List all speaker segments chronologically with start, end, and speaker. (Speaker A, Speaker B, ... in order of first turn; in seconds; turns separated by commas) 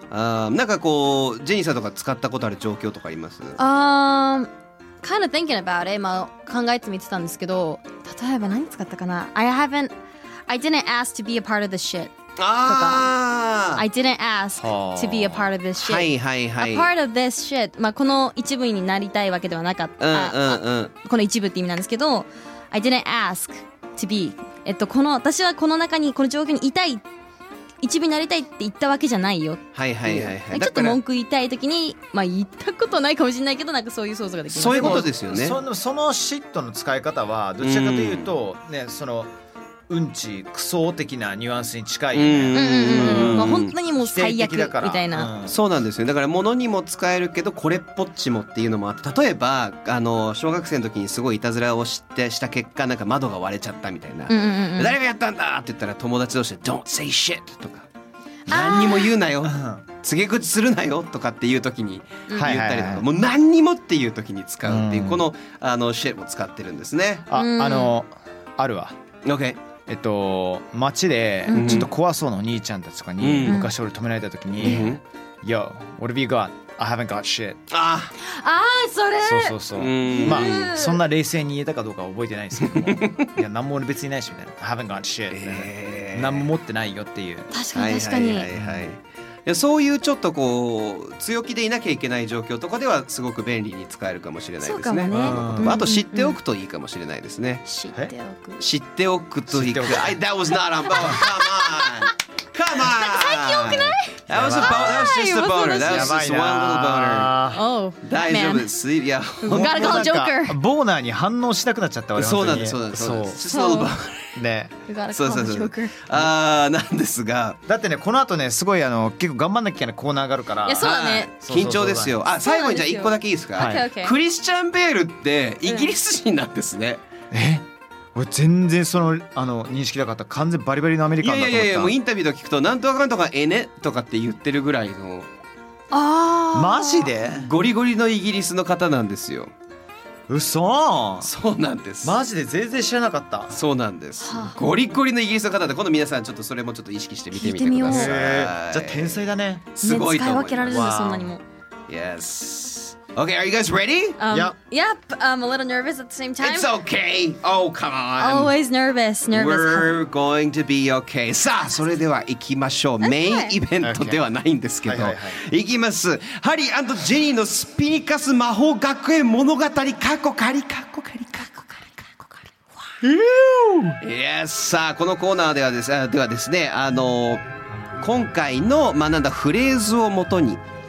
Speaker A: 0.1-3.6, Speaker B: 3.6-4.5, Speaker B: 5.0-9.9, Speaker B: 10.5-13.1, Speaker A: 12.4-13.8, Speaker B: 13.8-27.0, Speaker C: 14.6-15.5, Speaker A: 15.8-16.9, Speaker A: 20.0-20.9, Speaker B: 27.8-35.1, Speaker A: 29.7-31.0, Speaker A: 34.5-35.6, Speaker C: 34.7-39.3, Speaker A: 37.6-38.3, Speaker C: 39.9-45.5, Speaker A: 42.1-43.7, Speaker B: 42.5-45.3, Speaker A: 45.5-57.9, Speaker B: 54.3-55.0, Speaker B: 58.5-59.1, Speaker A: 58.5-67.2, Speaker C: 59.4-59.8, Speaker C: 62.3-63.0, Speaker C: 64.6-65.2, Speaker C: 67.3-69.0, Speaker B: 67.3-67.9, Speaker A: 69.2-69.6, Speaker C: 69.9-77.6, Speaker B: 71.5-71.8, Speaker A: 71.5-71.9, Speaker A: 73.2-73.6, Speaker A: 74.6-75.0, Speaker A: 77.7-78.1, Speaker B: 78.2-81.0, Speaker C: 79.2-87.5, Speaker A: 79.7-80.7, Speaker A: 82.6-83.3, Speaker A: 85.3-86.5, Speaker B: 87.5-88.5, Speaker A: 87.7-97.7, Speaker C: 88.5-88.8, Speaker B: 94.6-96.4, Speaker C: 95.1-95.8, Speaker B: 97.7-98.6, Speaker A: 98.6-107.3, Speaker C: 99.5-100.2, Speaker B: 100.9-102.1, Speaker B: 102.8-106.1, Speaker C: 104.3-105.1, Speaker C: 105.8-107.6, Speaker B: 107.5-108.7, Speaker A: 108.0-110.0, Speaker B: 109.4-110.6, Speaker C: 109.5-113.4, Speaker A: 112.2-114.3, Speaker B: 113.5-113.9, Speaker C: 114.3-114.8, Speaker B: 114.9-116.0, Speaker A: 115.1-117.6, Speaker C: 117.7-122.2, Speaker B: 120.6-121.3, Speaker A: 120.8-127.0, Speaker B: 122.4-124.1, Speaker C: 123.5-123.8, Speaker B: 125.7-125.9, Speaker C: 127.3-131.9, Speaker A: 131.2-135.3, Speaker B: 135.9-137.1, Speaker C: 136.5-137.5, Speaker A: 137.2-139.5, Speaker C: 140.3-141.3, Speaker A: 141.2-142.2, Speaker C: 142.0-143.6, Speaker A: 143.5-149.2, Speaker B: 144.2-144.6, Speaker B: 147.3-148.1, Speaker C: 147.8-149.7, Speaker A: 149.8-150.9, Speaker B: 149.8-151.4, Speaker C: 150.7-151.3, Speaker A: 151.9-154.2, Speaker B: 154.2-156.7, Speaker C: 154.3-154.5, Speaker A: 156.4-158.5, Speaker B: 158.2-159.9, Speaker A: 159.3-172.4, Speaker B: 163.0-163.5, Speaker C: 163.8-164.2, Speaker C: 164.8-165.4, Speaker C: 173.0-174.0, Speaker A: 174.0-177.4, Speaker A: 178.0-180.6